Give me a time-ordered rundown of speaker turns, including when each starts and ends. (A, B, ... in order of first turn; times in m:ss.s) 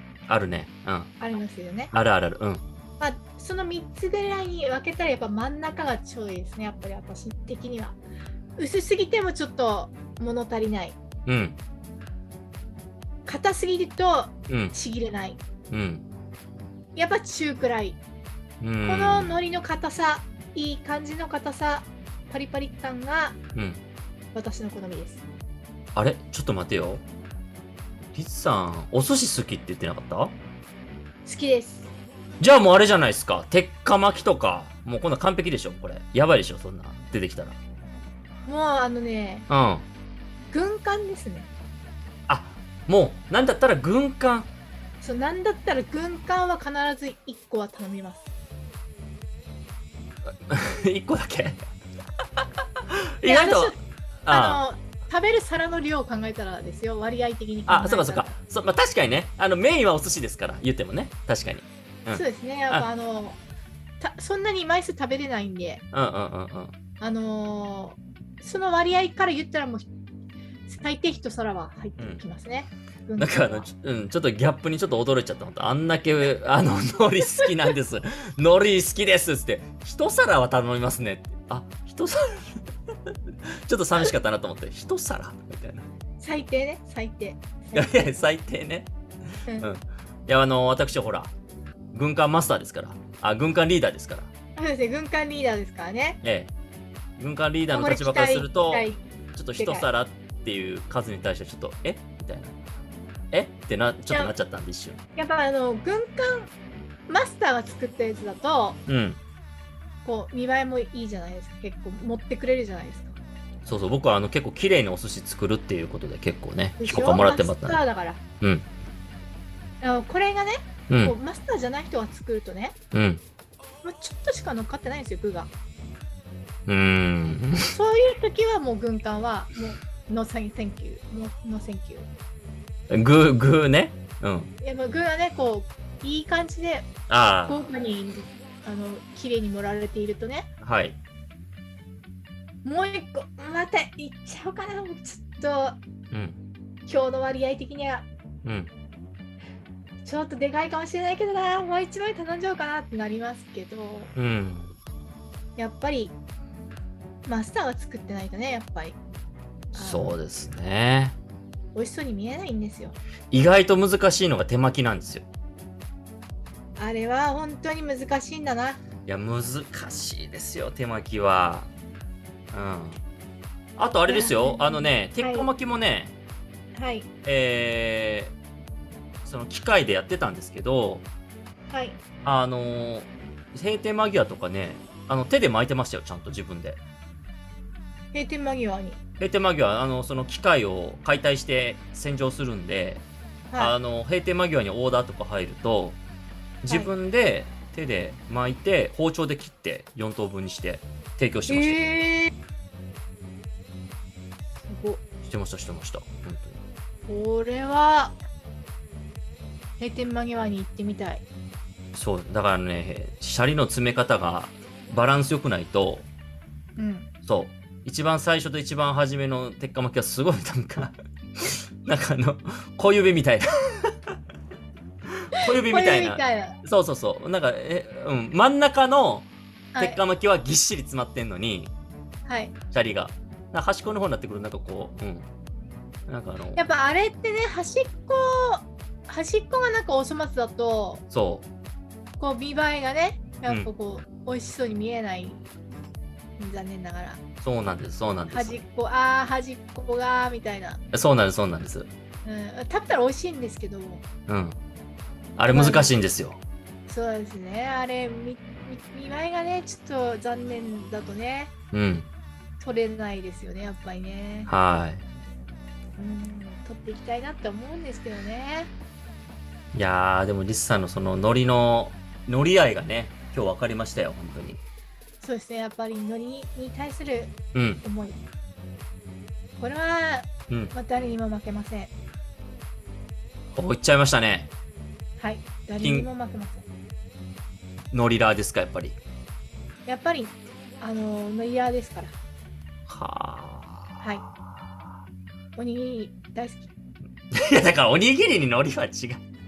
0:00.3-0:01.1 A
0:01.2-0:01.9 B
0:01.9-0:02.6 A
0:03.0-0:08.0 B
0:08.6-0:11.0 B
0:11.2-0:11.6 A
0:13.2-0:15.4 B
0:14.5-0:14.7 A
0:15.7-0:16.0 A
0:16.9-0:18.0 B
0:18.6-0:19.4 A
0:18.8-0:23.4 B
0:23.5-0:23.8 A
0:24.3-0:25.2 B
0:25.9-0:27.0 A
0:28.1-0:30.3 A
0:31.2-0:31.9 B
0:32.4-0:37.6 A
0:38.4-0:39.5 B
0:39.5-0:39.8 A
0:40.5-0:41.5 B
0:42.3-0:44.5 A
0:45.0-0:48.3 B
0:50.3-0:51.7 A
0:52.4-0:54.6 A
0:53.2-0:58.3 B
0:57.7-1:02.9 A
1:02.1-1:03.4 B
1:04.0-1:05.8 B
1:05.9-1:06.7 A
1:07.0-1:09.9 B
1:10.7-1:13.7 B
1:13.2-1:25.8 A
1:26.2-1:27.9 B
1:27.7-1:28.9 A
1:29.6-1:31.3 A
1:31.9-1:34.3 A
1:34.6-1:36.2 B
1:36.2-1:36.5 A
1:37.2-1:42.6 A
1:37.7-1:39.0 B
1:39.6-1:39.9 B
1:43.3-1:45.0 A
1:45.2-1:46.5 B
1:47.1-1:48.8 B
1:48.9-1:49.2 A
1:50.0-1:53.2 B
1:53.6-1:57.8 A
1:56.8-1:58.2 B
1:59.8-2:02.8 B
2:00.9-2:01.1 A
2:02.9-2:03.2 A
2:03.8-2:05.5 B
2:06.7-2:07.7 A
2:07.6-2:12.1 B
2:12.9-2:14.5 A
2:14.6-2:16.9 B
2:17.1-2:17.6 A
2:17.4-2:20.5 B
2:20.6-2:21.0 A
2:22.6-2:25.8 B
2:26.1-2:26.4 A
2:26.8-2:28.1 B
2:28.4-2:28.7 A
2:30.0-2:34.1 B
2:34.1-2:34.7 A
2:35.6-2:36.1 B
2:37.2-2:39.0 B
2:39.7-2:40.1 B
2:39.7-2:41.1 A
2:41.7-2:43.0 B
2:43.3-2:45.2 A
2:46.8-2:48.8 B
2:49.1-2:51.7 A
2:52.5-2:53.0 A
2:53.8-2:56.1 A
2:54.1-2:55.5 B
2:56.7-2:57.1 B
2:57.2-2:58.3 A
2:59.2-3:01.0 A
3:01.7-3:02.0 B
3:02.2-3:06.8 A
3:08.1-3:09.0 B
3:09.2-3:13.0 A
3:13.6-3:16.0 A
3:16.6-3:21.9 A
3:21.5-3:22.3 B
3:24.6-3:25.0 B
3:25.2-3:26.6 A
3:27.1-3:28.1 B
3:29.8-3:31.2 B
3:31.9-3:36.1 A
3:36.8-3:37.1 B
3:37.2-3:43.9 A
3:45.2-3:51.7 A
3:45.5-3:46.6 B
3:49.7-3:50.0 B
3:52.3-3:52.5 B
3:52.7-3:55.3 A
3:56.1-3:56.6 A
3:56.6-4:01.0 B
4:01.1-4:01.4 A
4:02.2-4:05.5 B
4:06.4-4:07.2 B
4:07.4-4:08.6 A
4:08.3-4:10.8 B
4:10.9-4:11.9 A
4:12.2-4:14.0 B
4:14.3-4:14.6 A
4:15.4-4:16.4 A
4:15.5-4:15.9 B
4:16.9-4:21.5 B
4:21.7-4:22.1 A
4:22.6-4:24.5 B
4:24.5-4:25.0 A
4:26.0-4:28.7 B
4:29.7-4:34.6 A
4:35.2-4:38.2 B
4:37.5-4:37.8 A
4:39.6-4:41.9 B
4:43.5-4:44.5 A
4:45.2-4:46.6 B
4:45.8-4:46.1 A
4:47.9-4:49.0 A
4:49.8-4:52.1 B
4:52.9-4:53.9 A
4:55.6-4:56.7 B
4:57.3-4:59.2 A